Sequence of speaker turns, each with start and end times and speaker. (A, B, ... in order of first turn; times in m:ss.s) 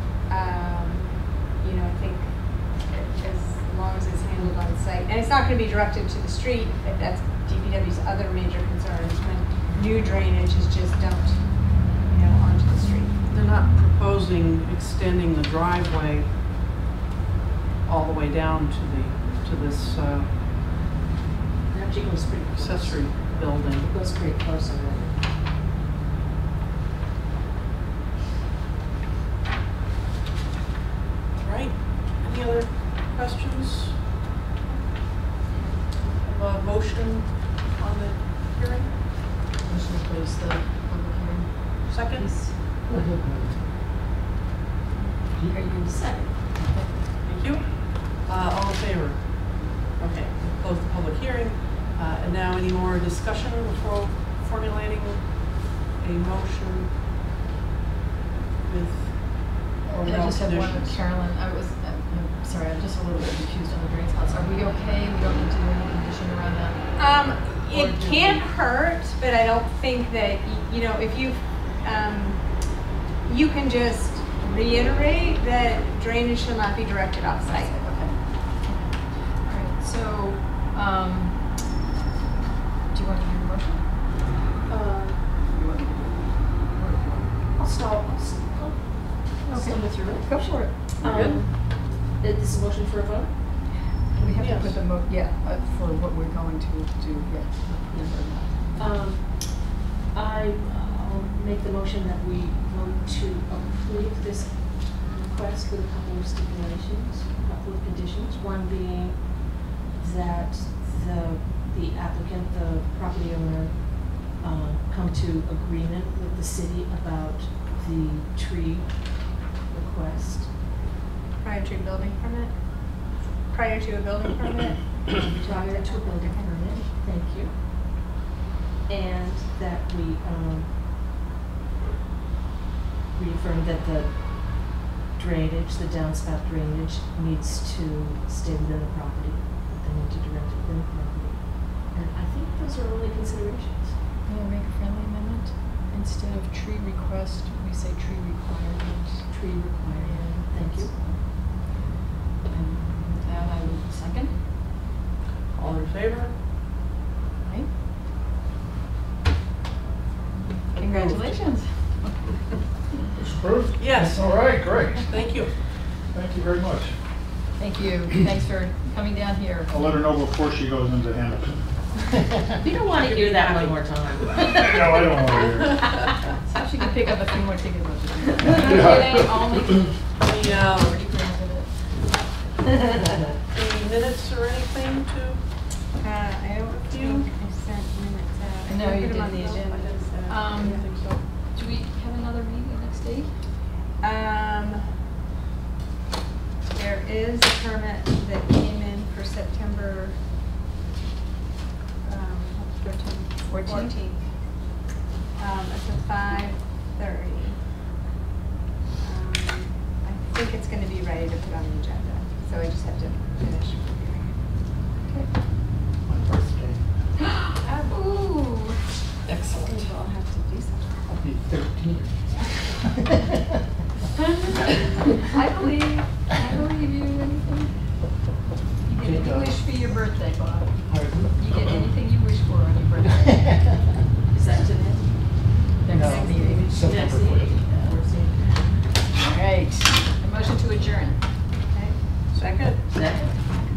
0:00.3-0:13.2 A
0:13.3-0:16.3 B
0:17.8-0:20.3 B
0:21.7-0:25.2 C
0:22.5-0:23.9 B
0:31.4-0:34.2 B
0:36.0-0:38.9 B
0:39.6-0:42.6 D
0:41.8-0:42.5 B
0:42.8-0:43.7 E
0:45.0-0:46.0 D
0:45.3-0:45.7 E
0:45.6-0:46.4 C
0:46.5-0:47.1 D
0:47.2-0:57.0 B
0:58.6-1:01.0 B
0:59.9-1:08.5 D
1:07.0-1:17.8 A
1:17.4-1:21.7 D
1:22.9-1:24.0 D
1:24.7-1:25.4 C
1:25.3-1:27.5 D
1:27.6-1:33.6 C
1:29.4-1:31.5 D
1:31.0-1:31.4 B
1:34.1-1:39.0 D
1:34.4-1:34.8 B
1:38.7-2:00.5 C
2:01.4-2:06.6 A
2:05.4-2:08.1 C
2:08.9-2:11.0 C
2:13.1-2:24.0 C
2:24.2-2:31.3 D
2:29.3-2:31.1 C
2:32.5-2:34.5 D
2:35.5-2:36.4 B
2:37.4-2:37.7 D
2:40.7-2:43.1 D
2:40.7-2:41.7 B
2:43.2-2:43.5 E
2:43.2-2:45.3 F
2:43.8-2:44.3 B
2:45.1-2:45.5 B
2:46.1-2:46.9 F
2:47.6-2:50.0 D
2:49.7-2:51.9 F
2:52.6-2:55.1 C
2:52.8-2:54.5 B
2:54.6-2:56.0 F
2:55.3-2:56.0 B
2:56.4-3:02.1 D
2:58.6-2:59.3 F
3:00.2-3:01.1 B
3:03.5-3:05.5 B
3:06.0-3:10.8 A
3:06.8-3:07.3 B
3:08.6-3:13.4 D
3:09.5-3:11.2 B
3:14.0-3:15.0 A
3:16.7-3:20.2 A
3:22.0-3:24.2 A
3:23.4-3:24.0 D
3:25.4-3:27.6 A
3:29.0-3:34.4 A
3:35.0-3:35.3 D
3:36.0-3:37.1 E
3:37.2-3:38.8 D
3:39.2-3:39.9 E
3:39.6-3:41.0 A
3:41.0-3:43.1 E
3:44.3-3:47.8 D
3:48.8-3:53.6 D
3:49.0-3:50.0 E
3:50.8-3:51.8 E
3:53.2-3:53.9 E
3:54.3-3:58.8 C
3:55.8-3:56.8 D
3:55.9-3:58.1 E
3:59.1-4:01.3 D
4:01.7-4:02.0 A
4:02.3-4:02.8 B
4:02.8-4:03.4 C